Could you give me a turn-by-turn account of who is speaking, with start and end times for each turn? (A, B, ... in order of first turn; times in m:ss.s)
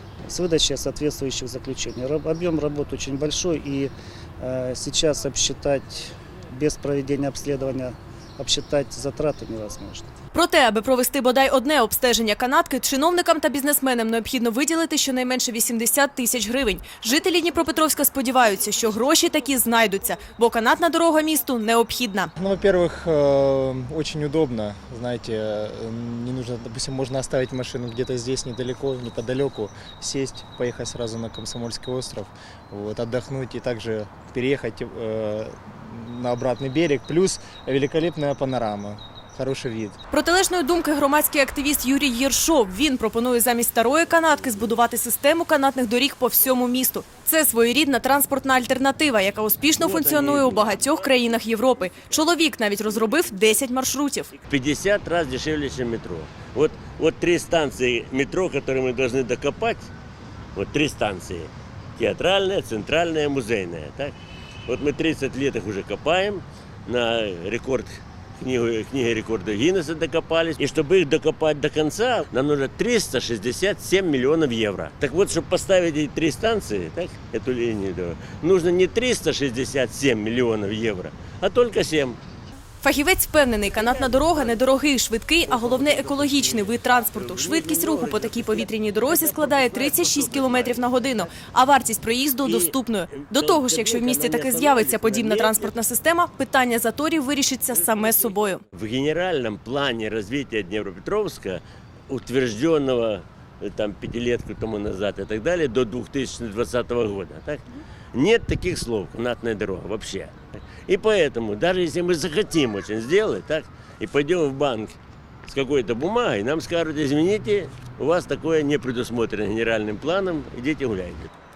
0:00.3-0:10.1 A
0:10.3-0:22.3 B
0:22.4-0:40.0 C
0:40.1-0:54.3 B
0:49.8-0:51.2 D
0:54.4-0:59.9 D
1:00.5-1:04.1 D
1:04.7-1:22.2 D
1:22.8-1:38.6 B
1:25.5-1:31.3 D
1:32.4-1:35.7 D
1:37.9-1:47.6 D
1:48.1-1:54.9 D
1:55.5-2:01.3 D